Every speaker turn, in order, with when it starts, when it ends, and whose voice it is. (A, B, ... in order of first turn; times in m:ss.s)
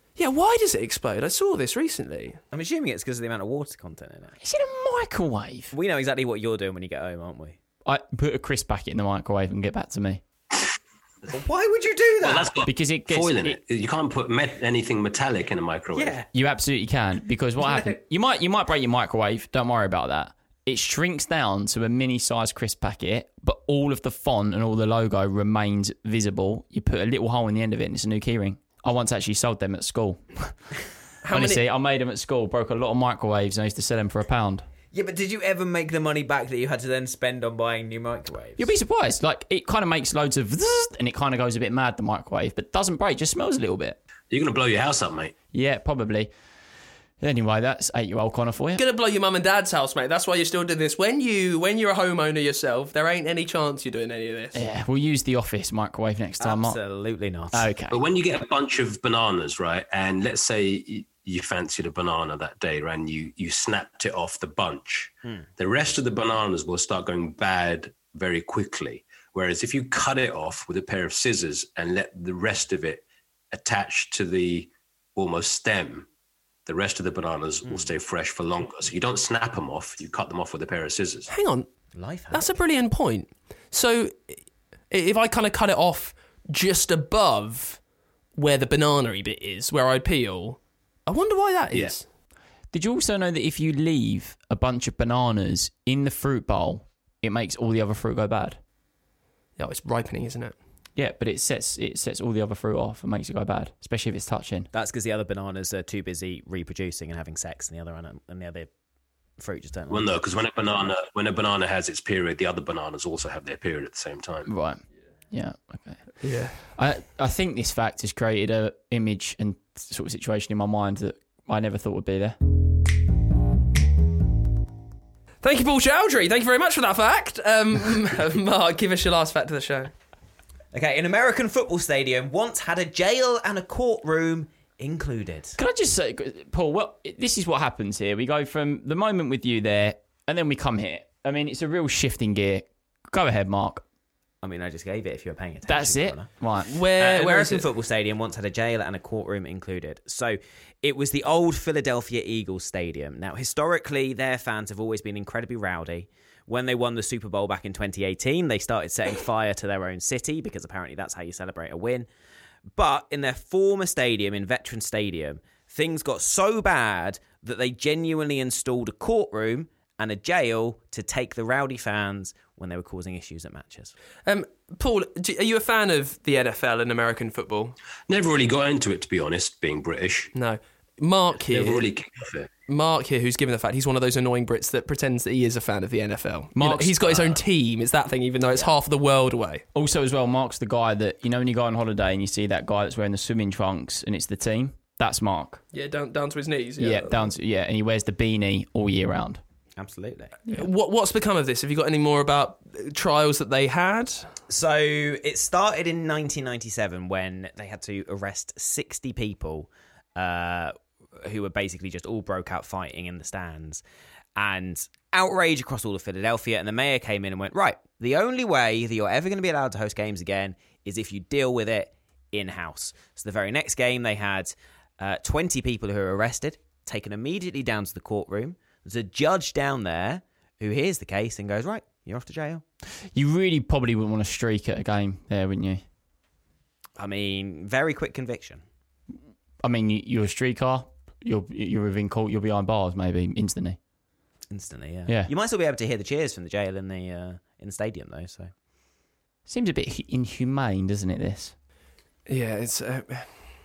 0:00.2-0:02.4 A
0:02.5-0:04.4 B
0:04.4-0:05.7 C
0:05.7-0:07.6 B
0:07.8-0:10.2 C
0:11.3-0:12.5 B
0:12.2-0:16.2 D
0:12.7-0:13.6 C
0:15.9-0:16.3 B
0:16.3-0:30.8 C
0:17.6-0:17.9 B
0:31.2-0:31.6 A
0:31.3-0:34.6 C
0:34.9-0:38.7 B
0:38.6-0:44.0 C
0:44.3-0:45.3 D
0:45.5-0:46.3 C
0:47.2-0:48.8 C
0:48.8-0:54.6 A
0:54.5-0:56.8 C
0:56.4-0:57.7 B
0:57.5-0:58.0 C
0:57.9-1:16.1 D
1:16.7-1:21.3 D
1:17.6-1:18.0 B
1:21.3-1:21.7 A
1:21.9-1:22.5 B
1:22.3-1:24.4 A
1:24.9-1:27.8 A
1:28.4-1:32.1 A
1:32.7-1:38.6 C
1:39.6-1:40.6 A
1:41.0-1:44.7 C
1:44.7-1:48.7 B
1:49.4-1:50.1 B
1:49.9-1:54.5 D
1:54.5-2:02.4 C
1:56.2-1:56.6 A
2:05.4-2:09.9 A
2:10.7-2:15.6 B
2:15.6-2:23.8 C
2:24.4-2:26.3 B
2:25.7-2:26.8 C
2:26.7-2:27.7 A
2:27.0-2:42.1 B
2:42.7-2:54.0 B
2:54.3-2:57.8 A
2:58.1-3:00.3 D
3:00.3-3:01.9 A
3:01.4-3:02.5 D
3:02.7-3:09.6 A
3:06.6-3:07.1 C
3:09.7-3:15.6 C
3:15.7-3:17.3 A
3:16.8-3:19.4 C
3:19.8-3:20.4 B
3:20.5-3:24.3 A
3:24.5-3:33.8 B
3:34.4-3:52.6 B
3:53.0-3:55.8 C
3:57.0-3:58.6 B
3:59.6-4:03.8 C
4:04.5-4:08.5 B
4:09.5-4:11.6 C
4:12.3-4:13.5 A